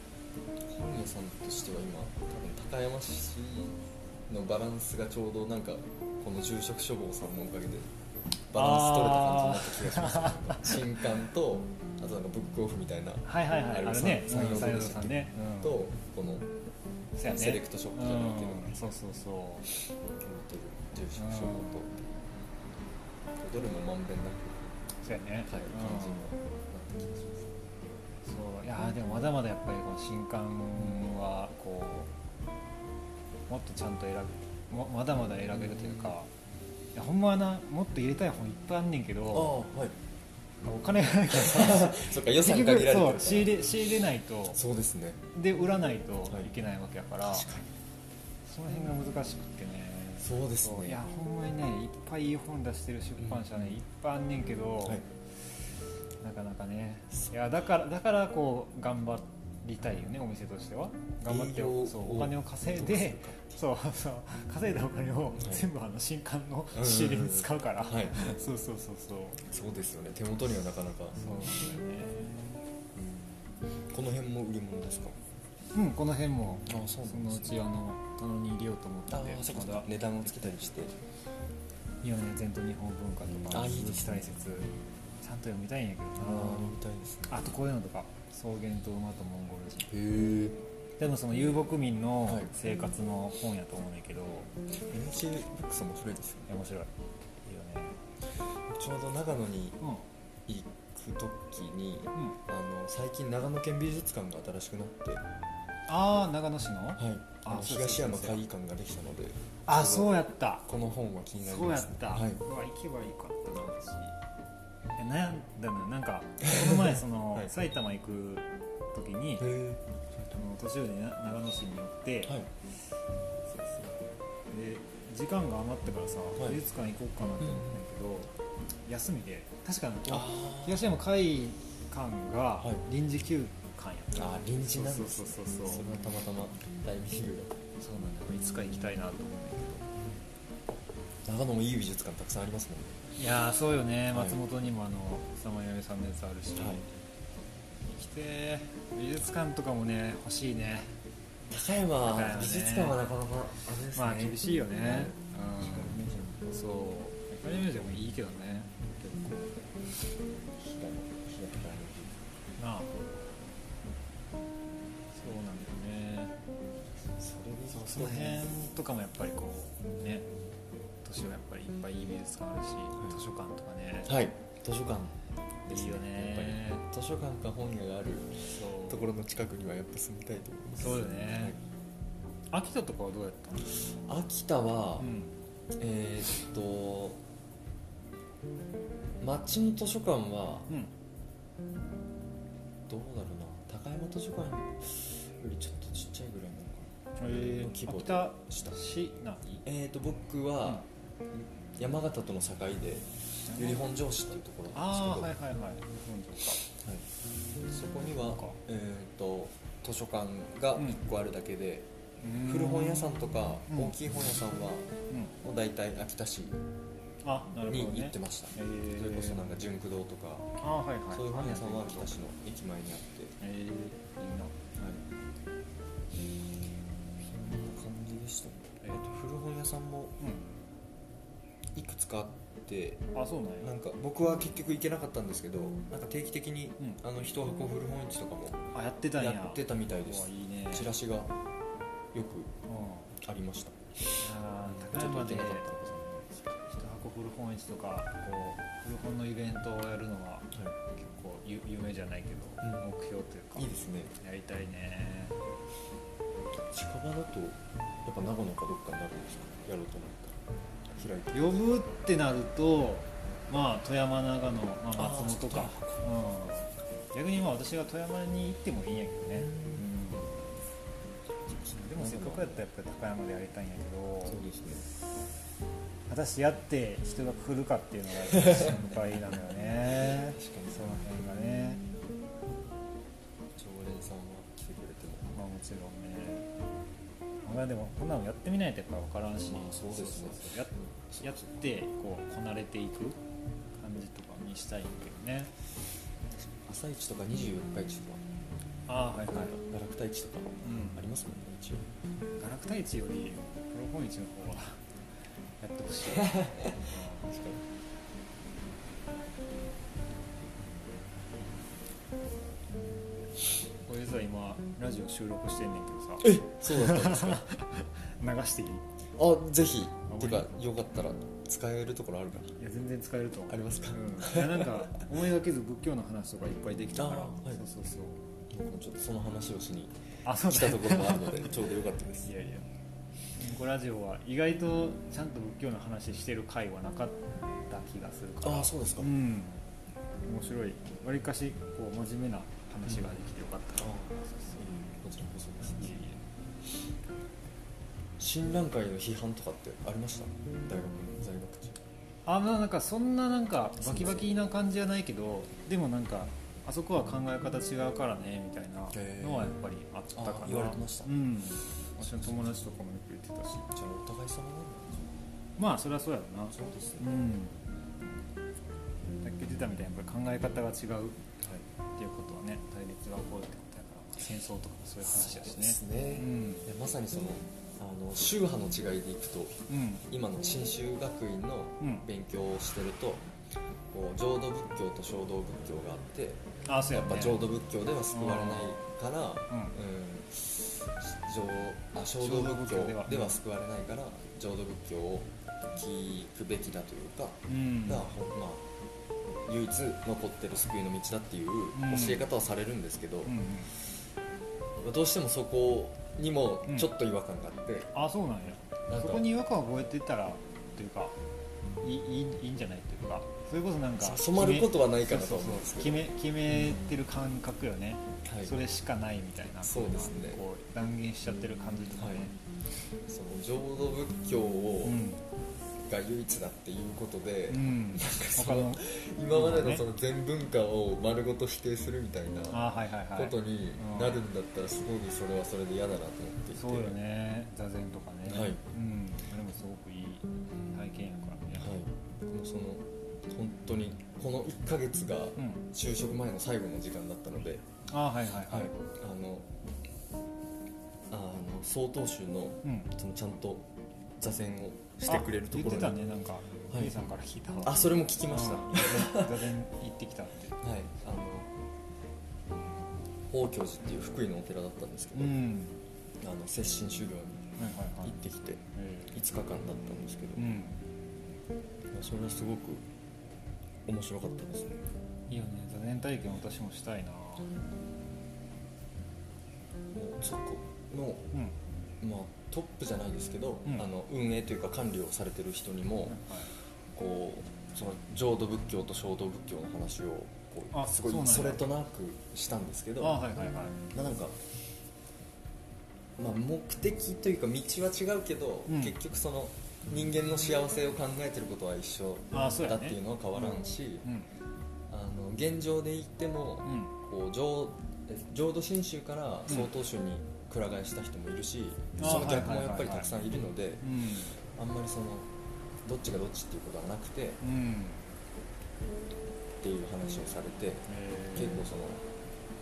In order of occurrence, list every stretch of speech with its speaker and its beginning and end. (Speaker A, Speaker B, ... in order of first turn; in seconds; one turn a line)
Speaker A: 0.6-7.9
Speaker A: 8.5-16.5
Speaker B: 8.5-10.8
Speaker B: 13.2-15.8
Speaker B: 17.1-19.7
Speaker A: 17.3-18.7
Speaker A: 20.2-22.4
Speaker B: 21.1-21.8
Speaker A: 23.4-24.8
Speaker B: 25.0-26.3
Speaker A: 25.4-27.7
Speaker B: 28.2-32.1
Speaker B: 33.5-36.3
Speaker A: 35.5-36.1
Speaker B: 36.9-39.5
Speaker A: 39.3-40.0
Speaker B: 40.6-44.6
Speaker A: 41.3-43.6
Speaker A: 44.5-45.2
Speaker B: 45.3-47.5
Speaker A: 47.2-47.7
Speaker B: 48.5-55.0
Speaker A: 50.2-51.0
Speaker B: 56.2-69.4
Speaker A: 61.2-63.6
Speaker A: 65.4-65.6
Speaker A: 66.7-68.2
Speaker A: 69.5-71.2
Speaker B: 71.1-72.5
Speaker A: 72.9-75.2
Speaker B: 75.7-80.5
Speaker A: 76.7-77.6
Speaker A: 79.1-81.0
Speaker B: 82.0-84.7
Speaker A: 83.5-84.3
Speaker B: 85.2-86.8
Speaker A: 86.2-87.5
Speaker B: 87.3-89.9
Speaker A: 89.9-90.6
Speaker B: 91.0-94.5
Speaker A: 94.8-96.5
Speaker B: 96.5-96.9
Speaker B: 97.4-98.0
Speaker A: 98.7-99.8
Speaker A: 100.5-105.2
Speaker B: 105.9-108.4
Speaker A: 107.0-112.4
Speaker B: 109.7-110.7
Speaker B: 111.4-114.1
Speaker B: 115.0-119.5
Speaker A: 116.5-117.5
Speaker A: 119.4-120.2
Speaker B: 120.3-122.4
Speaker B: 124.5-128.3
Speaker A: 127.4-127.8
Speaker B: 128.8-135.8
Speaker A: 130.1-130.8
Speaker A: 134.1-137.6
Speaker B: 137.8-139.9
Speaker A: 140.0-140.2
Speaker A: 141.2-143.0
Speaker B: 143.2-146.9
Speaker A: 144.1-144.4
Speaker A: 146.6-146.8
Speaker B: 147.9-150.9
Speaker A: 151.5-156.5
Speaker B: 152.0-153.0
Speaker B: 153.9-159.3
Speaker A: 159.1-159.5
Speaker A: 160.5-162.2
Speaker B: 162.6-162.9
Speaker B: 165.1-166.3
Speaker A: 167.2-168.4
Speaker B: 167.7-170.3
Speaker B: 171.0-174.1
Speaker A: 174.1-181.6
Speaker B: 175.7-176.8
Speaker B: 178.5-179.1
Speaker B: 180.8-181.6
Speaker B: 182.5-183.9
Speaker A: 183.9-185.2
Speaker B: 185.0-185.3
Speaker A: 185.8-187.2
Speaker A: 189.2-190.7
Speaker A: 192.9-198.8
Speaker B: 197.2-199.6
Speaker A: 199.6-205.3
Speaker B: 203.5-203.8
Speaker B: 204.7-206.6
Speaker A: 206.6-207.0
Speaker B: 207.7-208.6
Speaker A: 208.0-211.9
Speaker B: 212.2-213.9
Speaker A: 212.4-214.9
Speaker A: 215.4-216.6
Speaker B: 217.2-219.4
Speaker A: 217.7-220.5
Speaker B: 220.6-222.1
Speaker A: 221.1-223.3
Speaker B: 223.4-224.6
Speaker A: 224.8-225.0
Speaker A: 227.2-230.1
Speaker B: 230.2-230.5
Speaker A: 231.7-233.0
Speaker B: 233.1-233.7
Speaker A: 233.6-238.6
Speaker B: 238.7-240.9
Speaker A: 239.2-241.3
Speaker A: 242.1-242.5
Speaker B: 242.7-243.1
Speaker A: 243.2-246.5
Speaker B: 244.2-245.7
Speaker B: 246.6-253.7
Speaker A: 253.5-254.1
Speaker B: 254.2-255.3
Speaker A: 256.7-260.4
Speaker A: 260.9-261.6
Speaker B: 261.3-270.4
Speaker A: 264.9-266.0
Speaker A: 269.3-269.9
Speaker A: 271.4-272.6
Speaker B: 271.7-274.4
Speaker A: 274.2-274.9
Speaker B: 276.1-281.8
Speaker A: 278.3-278.9
Speaker A: 280.0-281.0
Speaker A: 283.6-285.3
Speaker B: 285.3-286.5
Speaker B: 287.4-293.2
Speaker A: 289.5-291.5
Speaker B: 293.8-295.5
Speaker A: 296.6-298.3
Speaker B: 298.9-299.6
Speaker A: 299.2-301.9
Speaker B: 300.6-301.0
Speaker B: 302.4-304.8
Speaker B: 305.6-307.3
Speaker A: 306.1-307.7
Speaker B: 313.9-318.8
Speaker A: 316.2-317.4
Speaker A: 319.1-322.5
Speaker B: 320.1-320.5
Speaker B: 322.6-328.2
Speaker A: 323.5-324.9
Speaker A: 326.9-327.6
Speaker A: 328.5-332.3
Speaker B: 330.2-331.6
Speaker B: 332.2-332.6
Speaker B: 333.4-339.6
Speaker A: 338.4-339.1
Speaker B: 340.2-344.6
Speaker A: 342.9-343.2
Speaker A: 343.8-346.0
Speaker B: 345.6-346.2
Speaker A: 348.2-351.8
Speaker B: 352.2-363.7
Speaker A: 353.8-354.3
Speaker A: 358.9-359.6
Speaker A: 360.1-361.1
Speaker A: 362.0-362.6
Speaker A: 363.7-365.2
Speaker B: 365.6-367.6
Speaker A: 366.5-367.1
Speaker B: 369.2-371.2
Speaker A: 371.4-371.6
Speaker B: 372.0-376.6
Speaker A: 375.0-383.3
Speaker B: 379.7-380.0
Speaker B: 381.8-382.1
Speaker A: 383.9-386.4
Speaker B: 386.6-387.4
Speaker A: 386.9-398.6
Speaker B: 388.1-388.8
Speaker B: 392.2-393.4
Speaker B: 397.5-398.1
Speaker A: 399.4-403.4
Speaker B: 401.7-402.2
Speaker B: 403.2-403.7
Speaker A: 404.8-407.9
Speaker B: 406.6-406.9
Speaker B: 407.9-411.1
Speaker A: 408.9-409.2
Speaker B: 411.8-422.4
Speaker A: 414.0-416.0
Speaker A: 418.2-418.6
Speaker A: 419.6-420.4
Speaker A: 422.0-422.2
Speaker A: 423.1-425.0
Speaker B: 424.8-425.2
Speaker A: 425.9-436.9
Speaker B: 427.5-429.8
Speaker B: 432.5-434.2
Speaker B: 436.5-441.8
Speaker A: 438.3-438.6
Speaker A: 441.6-447.6
Speaker B: 445.4-445.6
Speaker B: 447.9-448.7
Speaker A: 448.5-449.5
Speaker A: 451.1-456.0
Speaker B: 452.6-452.9
Speaker B: 455.1-460.6
Speaker A: 457.6-459.5
Speaker A: 460.6-461.5
Speaker A: 463.3-465.4
Speaker B: 465.1-465.8
Speaker A: 466.2-467.5
Speaker B: 467.6-468.2
Speaker A: 468.0-470.5
Speaker B: 468.7-469.1
Speaker B: 470.4-470.8
Speaker A: 471.9-472.8
Speaker A: 473.9-474.9
Speaker B: 475.3-477.5
Speaker A: 479.9-481.3
Speaker A: 482.0-486.2
Speaker B: 486.1-486.5
Speaker A: 486.9-493.2
Speaker B: 490.7-491.6
Speaker B: 493.0-493.8
Speaker A: 493.9-494.4
Speaker A: 496.2-504.1
Speaker B: 498.7-498.9
Speaker B: 502.3-504.3
Speaker A: 504.9-515.3
Speaker B: 506.6-506.9
Speaker B: 512.0-513.1
Speaker B: 513.8-514.4
Speaker A: 515.8-517.4
Speaker B: 517.4-518.1
Speaker A: 519.6-522.0
Speaker B: 520.9-521.6